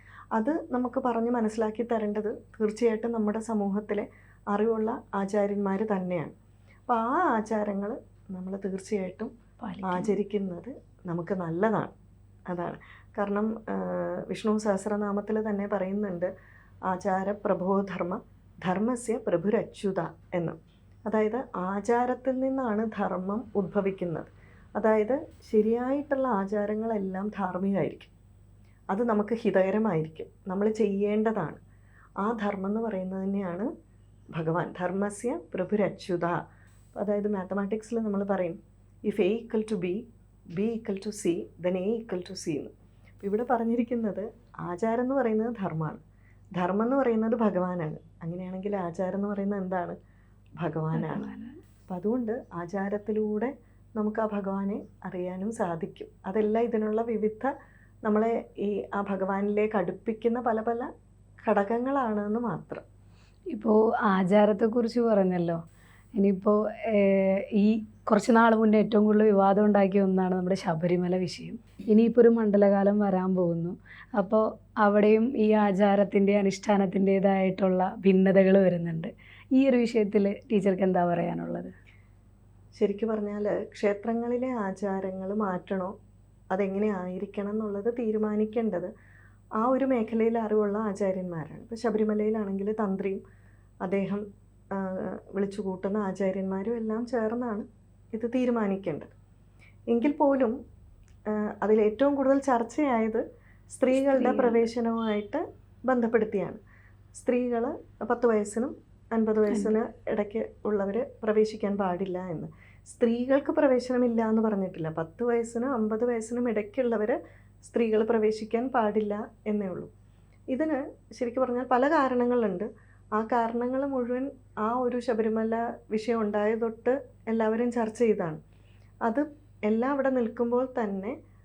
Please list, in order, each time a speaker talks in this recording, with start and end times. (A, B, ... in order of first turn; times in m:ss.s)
0:00.4-0:06.3 A
0:06.9-0:09.3 A
0:09.6-0:10.2 B
0:09.8-0:11.9 A
0:12.5-0:16.3 A
0:16.9-0:28.1 A
0:28.9-0:31.6 A
0:32.2-0:33.7 A
0:34.3-0:36.4 A
0:37.0-0:46.0 A
0:46.6-0:50.0 A
0:50.6-0:51.3 A
0:50.9-0:51.6 B
0:51.9-0:57.5 A
0:58.0-1:00.9 A
1:01.4-1:02.8 A
1:03.5-1:05.6 B
1:06.2-1:21.7 B
1:22.8-1:25.9 A
1:26.5-1:28.9 A
1:29.6-1:33.2 A
1:33.8-1:39.1 A
1:39.9-1:40.6 A
1:41.3-1:46.6 A
1:44.0-1:44.7 B
1:47.2-1:59.9 A
2:00.5-2:08.4 A
2:09.0-2:11.2 A